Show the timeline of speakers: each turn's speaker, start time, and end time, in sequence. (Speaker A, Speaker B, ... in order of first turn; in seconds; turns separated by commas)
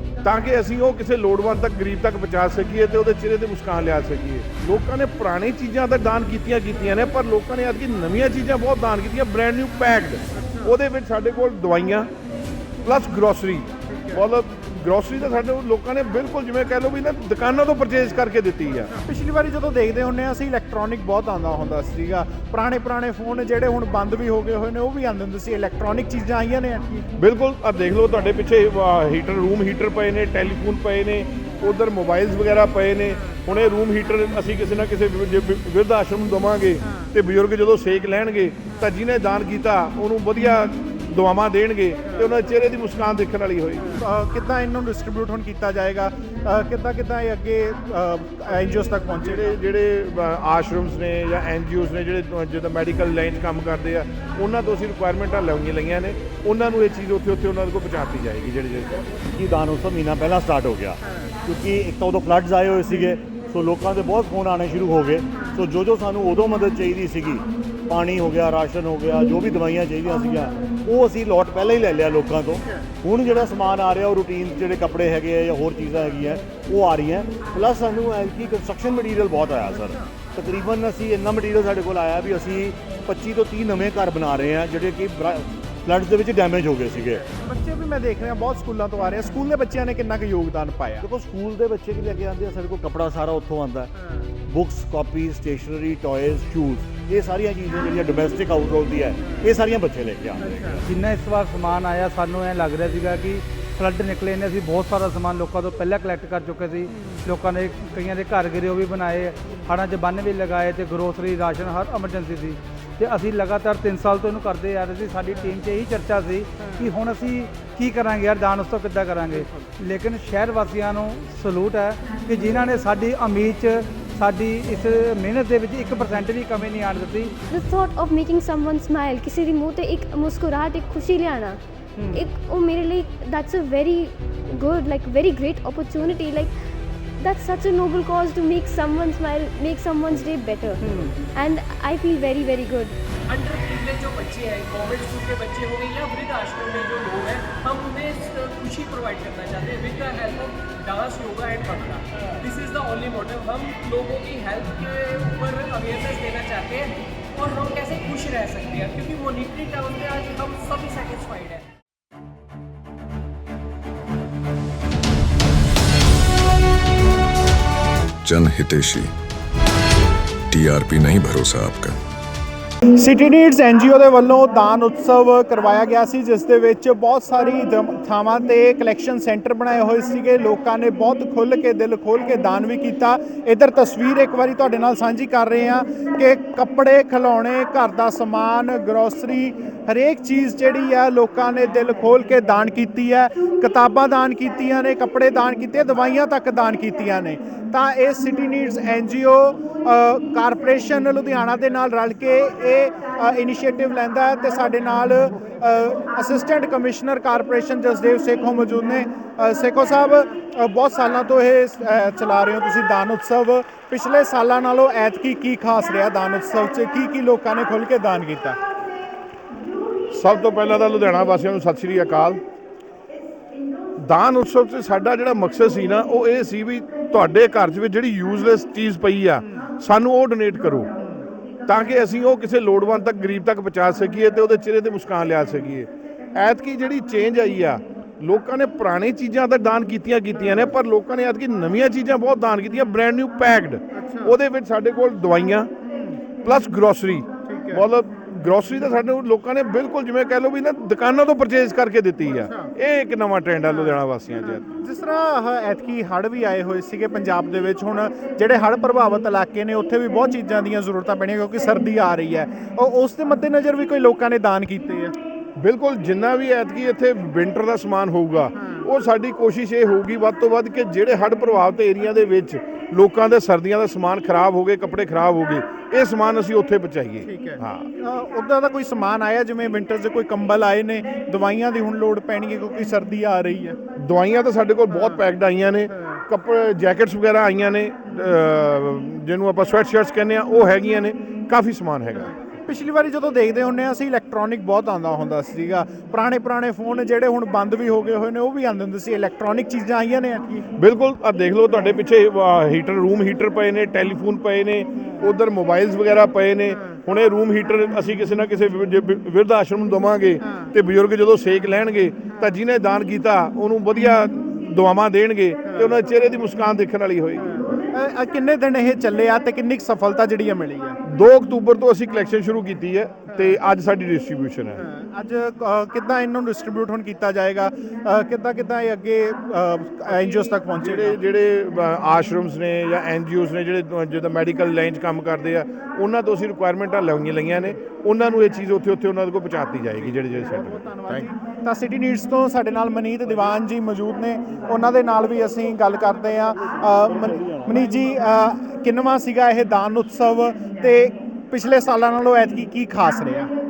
Speaker A: 0.2-12.1, Speaker A: 12.8-18.9, Speaker B: 13.9-14.2, Speaker B: 18.9-27.0, Speaker A: 27.2-43.9, Speaker B: 43.9-49.6, Speaker A: 49.2-59.0, Speaker C: 59.3-87.3, Speaker B: 87.3-91.1, Speaker C: 91.0-93.9, Speaker C: 94.5-100.8, Speaker D: 100.9-127.3, Speaker E: 127.5-131.6, Speaker B: 132.0-132.3, Speaker E: 132.1-136.5, Speaker E: 137.2-140.8, Speaker B: 140.8-141.2, Speaker E: 141.3-143.0, Speaker F: 143.3-161.7, Speaker G: 168.2-169.1, Speaker G: 170.5-172.0, Speaker B: 173.0-218.6, Speaker A: 220.1-222.4, Speaker A: 224.0-230.9, Speaker A: 231.7-245.7, Speaker B: 243.9-244.4, Speaker B: 245.9-246.2, Speaker A: 246.4-254.7, Speaker B: 247.4-247.8, Speaker B: 252.3-252.7, Speaker B: 253.7-265.2, Speaker A: 265.6-277.9, Speaker B: 268.6-268.9, Speaker B: 277.2-283.8, Speaker A: 284.0-292.3, Speaker B: 292.7-300.6, Speaker A: 300.8-317.6, Speaker B: 317.9-321.0, Speaker A: 321.1-324.8, Speaker B: 324.8-331.2, Speaker A: 330.1-341.3, Speaker B: 339.9-353.5, Speaker C: 346.8-348.2